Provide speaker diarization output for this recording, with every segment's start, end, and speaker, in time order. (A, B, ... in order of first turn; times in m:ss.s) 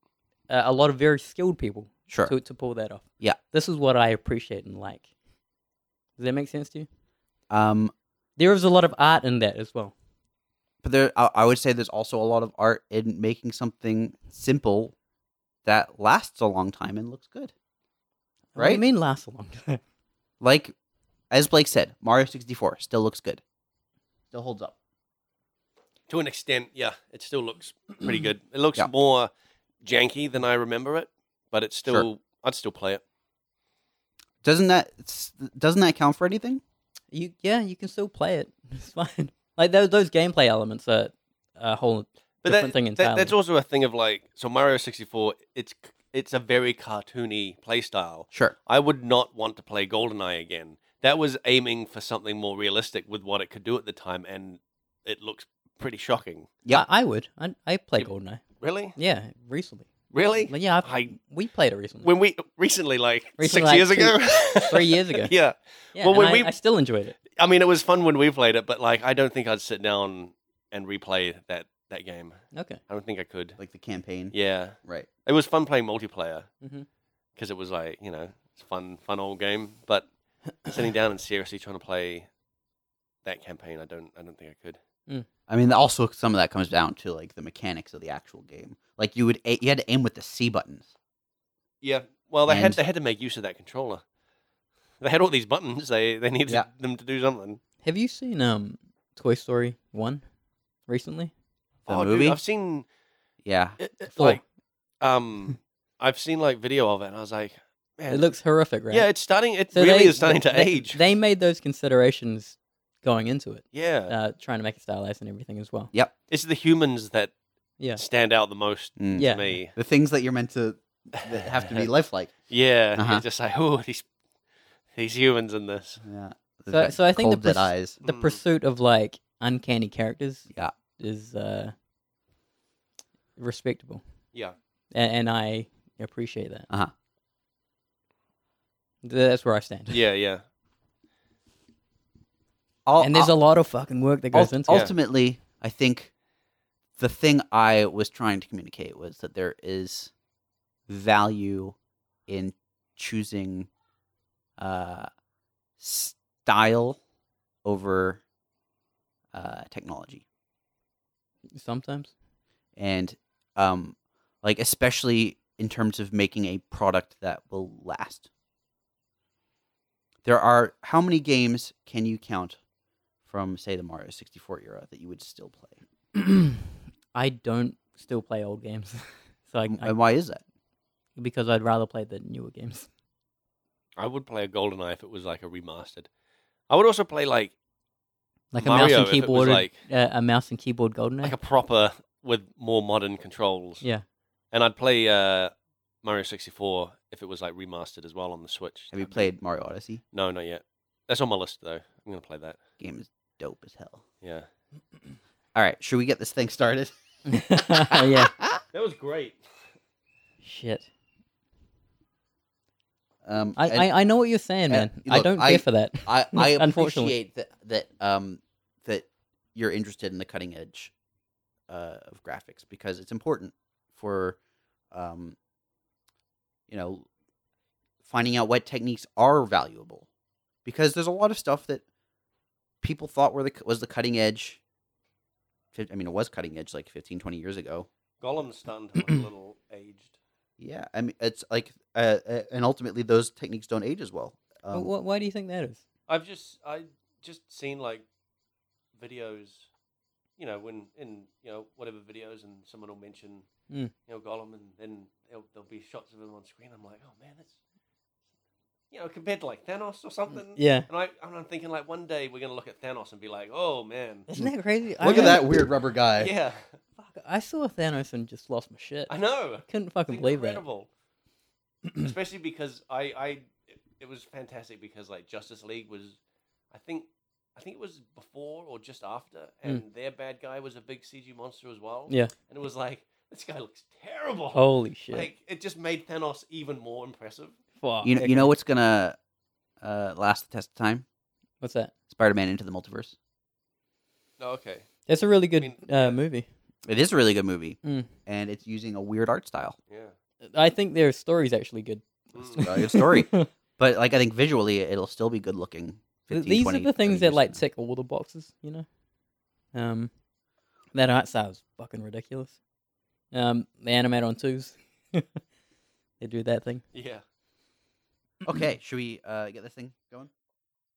0:00.5-0:05.1 A
0:02.1-0:02.4 B
0:06.2-0:06.9 A
0:07.5-0:07.9 B
0:08.4-0:09.9 A
0:10.8-0:15.0 B
0:15.6-0:17.5 B
0:18.5-0:19.8 A
0:18.6-0:18.8 B
0:20.4-0:20.7 B
0:21.3-0:23.4 B
0:24.3-0:24.8 B
0:26.1-0:29.3 C
0:29.8-0:33.0 C
0:34.4-0:36.6 B
0:37.1-0:43.3 A
0:42.4-0:56.5 C
0:56.7-0:58.4 A
0:58.6-0:59.0 C
0:59.0-0:59.9 A
1:00.1-1:01.1 C
1:00.5-1:02.1 A
1:02.0-1:06.5 C
1:03.4-1:04.2 A
1:04.7-1:05.3 A
1:06.0-1:07.2 A
1:07.3-1:12.3 C
1:12.5-1:12.8 A
1:12.9-1:13.6 C
1:13.6-1:15.1 B
1:14.3-1:16.5 C
1:16.6-1:16.9 A
1:17.4-1:20.1 C
1:20.7-1:22.3 C
1:23.2-1:24.8 C
1:25.5-1:30.9 B
1:31.8-1:34.0 C
1:32.5-1:32.8 B
1:35.0-1:37.6 C
1:37.8-1:40.2 A
1:40.9-1:41.3 A
1:41.9-1:42.9 C
1:41.9-1:42.4 B
1:43.4-1:44.4 B
1:43.8-1:44.4 C
1:45.0-1:48.2 C
1:48.1-1:49.1 A
1:48.9-1:51.0 C
1:49.7-1:55.9 A
1:53.7-1:54.1 C
1:56.3-1:57.3 C
1:58.0-1:59.7 C
1:59.0-2:02.3 B
1:59.2-1:59.5 A
2:01.2-2:01.9 C
2:02.5-2:04.1 C
2:03.0-2:03.2 B
2:05.0-2:06.0 C
2:06.0-2:08.0 B
2:06.7-2:11.7 A
2:08.0-2:08.4 C
2:13.4-2:14.0 A
2:14.9-2:16.7 A
2:19.0-2:20.0 A
2:19.9-2:20.4 C
2:22.9-2:23.3 B
2:23.0-2:24.9 A
2:24.3-2:26.1 B
2:27.0-2:30.1 B
2:30.9-2:31.8 B
2:32.3-2:33.7 B
2:34.6-2:35.1 B
2:35.8-2:37.0 B
2:37.6-2:38.2 B
2:39.3-2:40.2 B
2:41.5-2:42.1 A
2:42.8-2:48.3 B
2:50.2-2:52.6 B
2:53.3-2:55.8 B
2:56.2-3:00.0 A
2:59.7-3:00.4 B
3:01.2-3:02.9 A
3:04.0-3:06.1 C
3:06.7-3:07.5 C
3:08.5-3:11.4 A
3:08.6-3:09.8 C
3:11.2-3:13.8 C
3:14.5-3:19.3 C
3:18.9-3:20.0 B
3:20.1-3:22.6 C
3:22.8-3:24.0 B
3:25.6-3:26.9 B
3:27.3-3:28.4 A
3:27.9-3:28.6 B
3:28.7-3:29.4 C
3:30.4-3:30.9 A
3:33.2-3:33.9 B
3:33.6-3:37.1 A
3:34.7-3:40.9 B
3:41.7-3:44.4 B
3:44.9-3:45.4 B
3:46.7-3:47.1 B
3:48.0-3:50.1 B
3:50.6-3:51.8 B
3:52.8-3:54.6 B
3:55.7-3:57.9 B
3:58.2-4:00.1 C
4:00.6-4:04.9 B
4:04.7-4:05.8 A
4:06.1-4:08.0 C
4:09.0-4:09.7 C
4:10.4-4:13.4 C
4:14.1-4:17.5 C
4:18.9-4:24.3 C
4:20.6-4:20.9 A
4:24.3-4:25.5 A
4:25.0-4:25.5 C
4:25.0-4:26.3 B
4:26.2-4:26.6 C
4:27.0-4:29.1 A
4:29.1-4:30.9 C
4:29.7-4:30.6 A
4:32.0-4:36.2 C
4:36.7-4:47.5 C
4:44.5-4:45.3 A
4:47.8-4:48.5 A
4:48.0-4:49.2 B
4:49.8-4:51.0 B
4:51.6-4:51.9 A
4:52.1-4:53.2 B
4:54.4-4:54.9 C
4:55.1-4:56.5 A
4:55.6-4:56.0 C
4:56.8-4:59.8 B
4:59.9-5:00.1 C
5:00.4-5:03.5 A
5:02.4-5:02.7 C
5:02.6-5:07.6 B
5:06.3-5:08.9 A
5:09.7-5:10.1 A
5:11.0-5:12.6 A
5:13.3-5:15.4 A
5:16.2-5:16.8 A
5:16.9-5:17.2 C
5:18.4-5:20.3 B